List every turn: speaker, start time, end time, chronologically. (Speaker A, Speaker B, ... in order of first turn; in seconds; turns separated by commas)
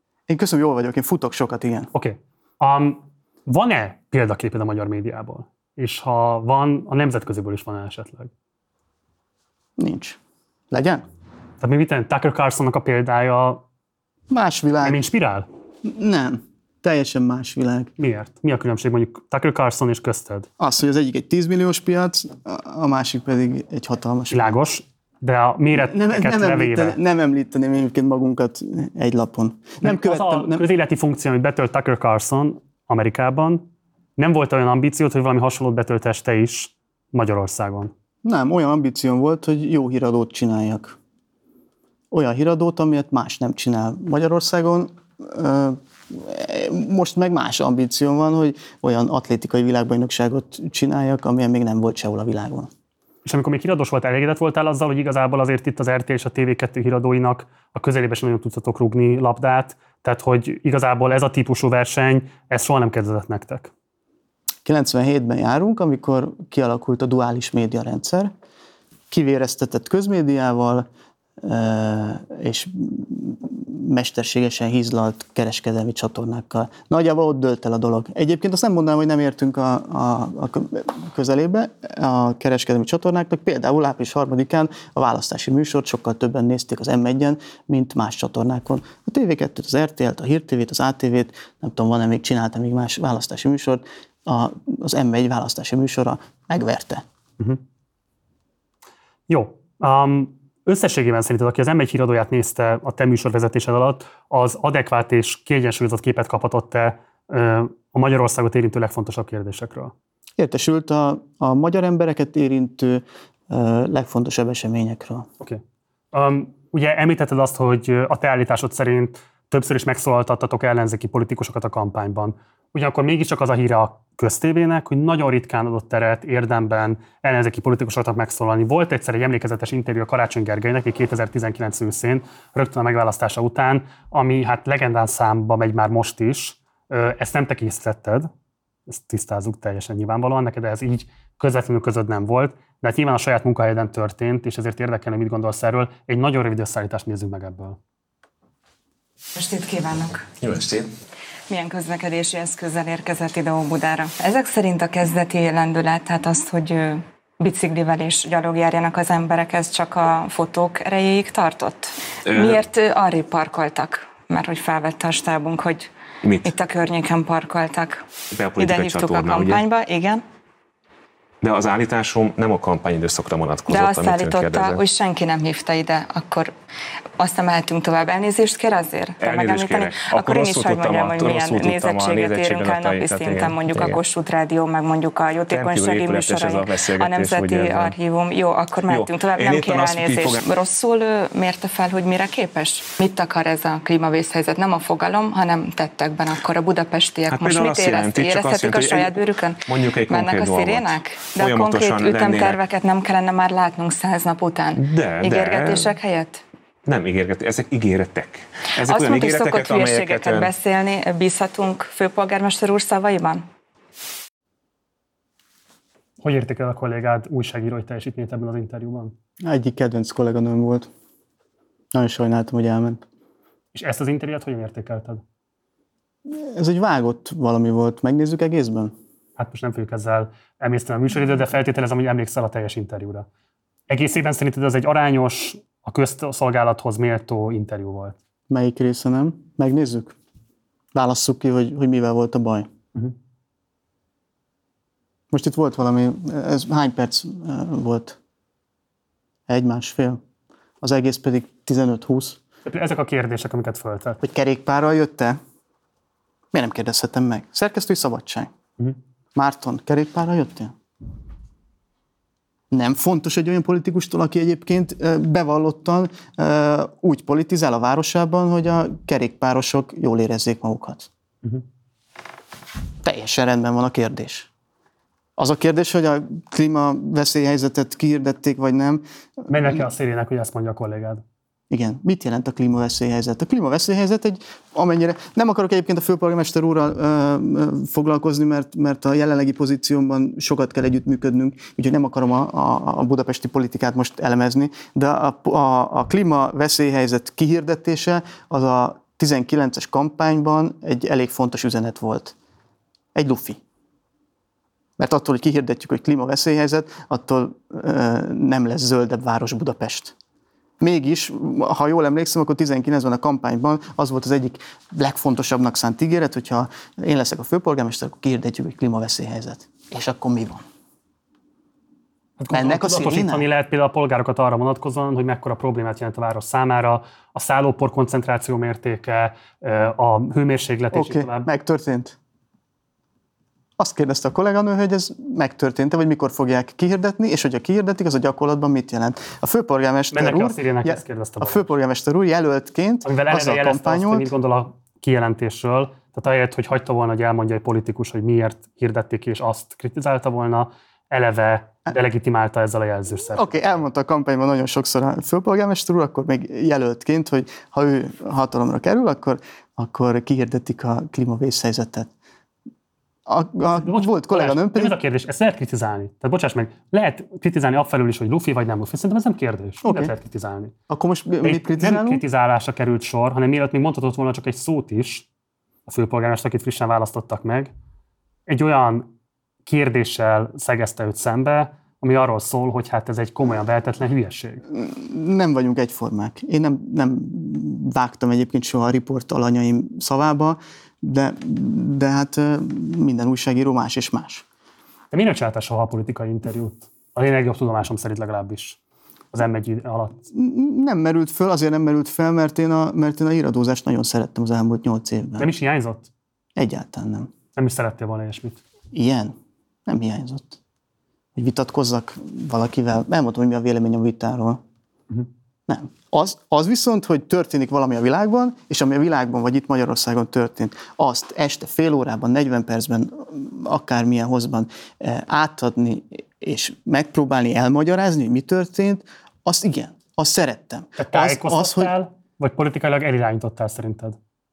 Speaker A: 0.3-1.9, Speaker B: 1.9-8.3, Speaker A: 9.8-10.2, Speaker A: 10.7-11.0, Speaker B: 11.6-13.6, Speaker A: 14.3-15.0, Speaker B: 14.8-15.4, Speaker A: 15.8-17.9, Speaker B: 18.0-20.5, Speaker A: 20.6-24.4, Speaker B: 24.3-27.0, Speaker A: 25.7-30.6, Speaker B: 29.8-33.6, Speaker B: 34.2-37.9, Speaker A: 38.2-41.0, Speaker A: 42.1-52.7, Speaker B: 53.2-63.7, Speaker A: 64.6-68.3, Speaker A: 69.1-70.8, Speaker A: 71.4-97.0, Speaker B: 99.3-109.9, Speaker A: 110.4-115.3, Speaker B: 116.1-138.3, Speaker B: 138.9-147.8, Speaker C: 149.3-150.3, Speaker D: 150.4-150.9, Speaker C: 151.5-165.9, Speaker D: 162.3-162.6, Speaker D: 166.2-166.5, Speaker C: 166.4-170.2, Speaker D: 168.3-169.6, Speaker D: 171.4-174.8, Speaker C: 173.7-176.5, Speaker C: 177.2-206.4, Speaker D: 179.2-184.0, Speaker D: 185.5-187.9, Speaker D: 188.9-190.4, Speaker D: 197.3-199.1, Speaker D: 199.7-202.6, Speaker D: 204.8-205.9, Speaker D: 206.9-210.5, Speaker C: 208.8-213.4, Speaker B: 216.2-219.1, Speaker A: 219.4-220.9, Speaker A: 221.9-223.0, Speaker B: 223.7-225.2, Speaker A: 226.3-228.9, Speaker B: 229.4-233.3, Speaker B: 233.9-238.2, Speaker A: 238.5-240.1, Speaker A: 240.9-242.7, Speaker A: 245.3-248.2, Speaker A: 249.5-250.2, Speaker A: 250.8-252.4, Speaker B: 252.7-254.2, Speaker A: 254.2-255.4, Speaker A: 256.5-258.5, Speaker A: 259.3-260.7, Speaker A: 262.7-271.1, Speaker A: 273.0-274.5, Speaker A: 275.4-279.8, Speaker B: 279.5-281.2, Speaker A: 281.7-302.3, Speaker A: 303.1-303.6, Speaker A: 305.0-310.1, Speaker A: 310.8-320.6, Speaker B: 322.4-331.5, Speaker A: 322.5-323.4, Speaker A: 330.9-332.1, Speaker A: 333.8-344.3, Speaker B: 340.1-341.7, Speaker B: 343.1-353.5, Speaker A: 353.3-362.1, Speaker A: 363.3-365.0, Speaker B: 363.8-370.7, Speaker A: 369.8-370.1, Speaker A: 370.9-372.2, Speaker B: 371.4-375.2, Speaker B: 375.9-377.7, Speaker B: 378.5-379.1, Speaker B: 379.6-384.6, Speaker A: 384.7-394.4, Speaker B: 395.1-398.8, Speaker B: 399.3-400.2, Speaker A: 400.3-405.5, Speaker B: 405.4-406.1, Speaker A: 406.6-407.3, Speaker B: 407.6-408.6, Speaker A: 408.9-409.3, Speaker A: 409.9-410.6, Speaker A: 411.4-414.6, Speaker A: 415.7-431.9, Speaker B: 431.0-434.2